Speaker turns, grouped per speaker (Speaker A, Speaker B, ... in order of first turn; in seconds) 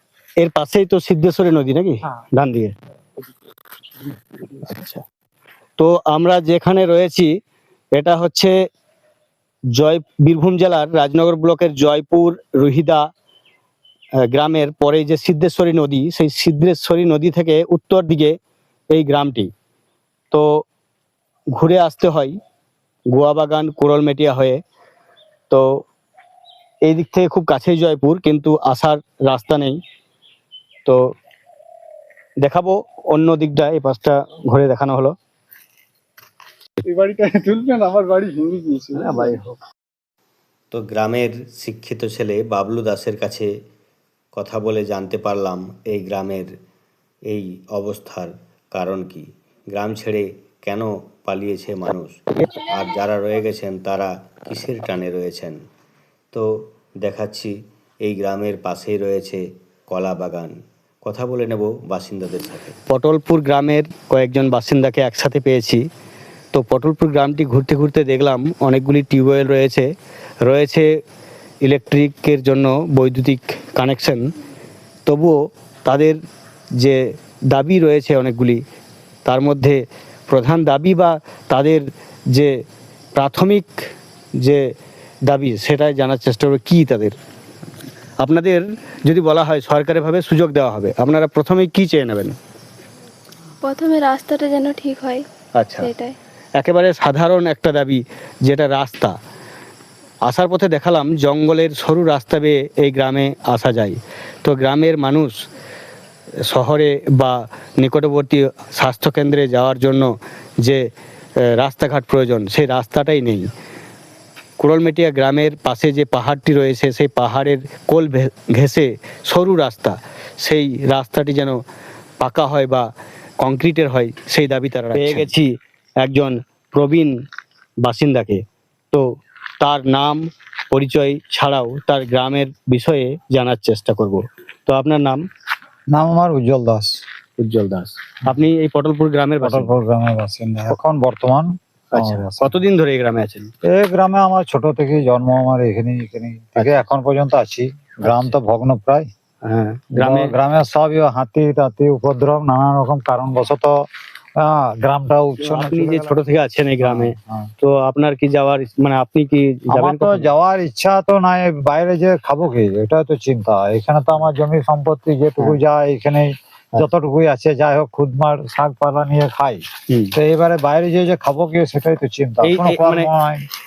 Speaker A: 0.4-2.7, 4.7-5.0, 5.8-7.3, 7.9-8.5, 9.8-13.0, 14.3-18.4, 18.9-19.5, 20.3-20.6, 21.5-22.4, 23.1-24.6, 25.5-25.8, 26.9-29.8, 32.4-35.1, 39.0-39.6, 62.9-65.8, 66.5-69.9, 70.4-70.9, 71.6-74.2, 75.0-76.2, 76.7-78.6, 79.2-82.5, 83.1-83.7, 84.4-84.6, 85.2-87.2, 88.2-92.3, 95.5-95.9, 96.6-99.2, 100.2-105.3, 106.5-110.8, 111.4-113.5, 114.6-121.6, 122.2-122.9, 123.4-125.5, 126.0-127.1, 127.8-129.0, 129.6-135.2, 137.4-139.7, 141.9-143.5, 146.6-146.8, 148.0-148.3, 149.4-150.3, 155.4-160.3, 169.9-170.1, 172.4-173.1
Speaker B: 3.9-4.6, 36.8-39.4
Speaker C: 40.7-43.5, 44.3-46.5, 47.3-55.6, 56.3-62.8
Speaker D: 93.6-95.2, 95.8-96.2
Speaker E: 135.9-137.0, 139.4-142.5, 143.6-149.1, 149.9-153.8, 154.4-156.2, 156.8-157.5, 159.7-173.4